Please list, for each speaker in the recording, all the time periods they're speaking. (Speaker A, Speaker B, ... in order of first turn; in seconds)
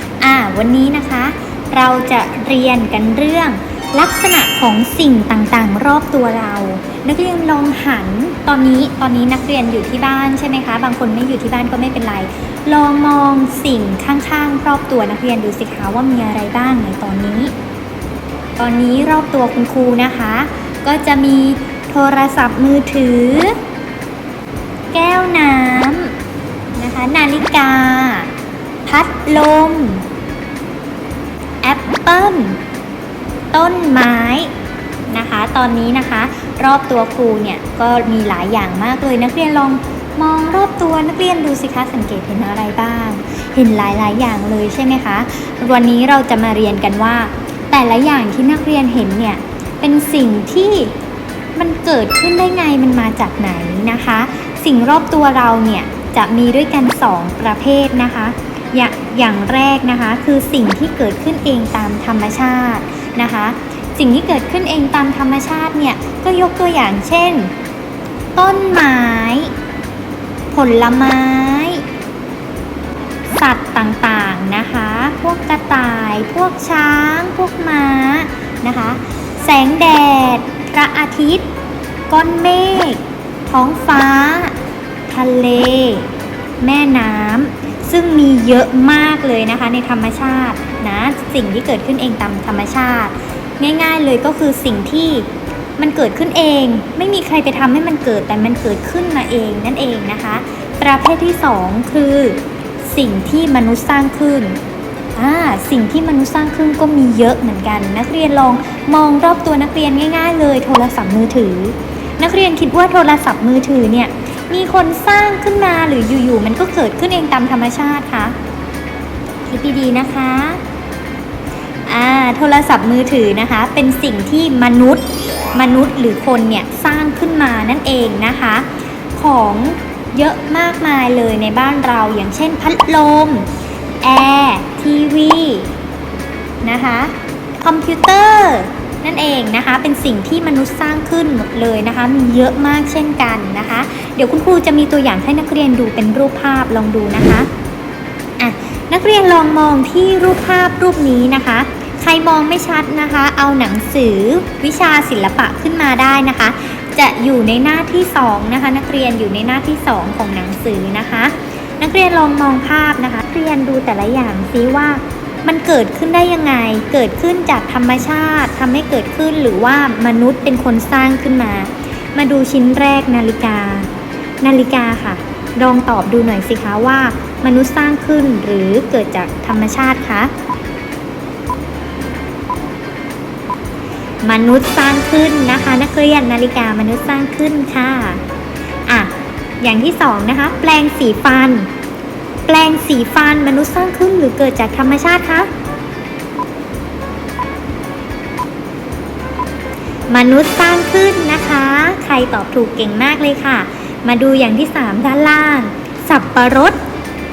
Speaker A: 0.2-17.5, 18.6-23.6, 24.9-26.1, 26.8-28.3, 28.9-30.1, 31.6-32.6, 33.5-34.5, 35.1-50.9, 51.6-67.5, 68.4-69.5, 70.5-71.8, 73.3-81.5, 82.1-84.5, 85.1-86.1, 86.6-95.3, 95.8-104.6, 105.2-118.3, 119.5-120.6, 121.9-133.5, 134.0-135.7, 136.6-147.5, 148.4-173.9, 174.4-180.3, 184.2-188.2, 188.9-191.7, 192.5-195.5, 200.1-206.8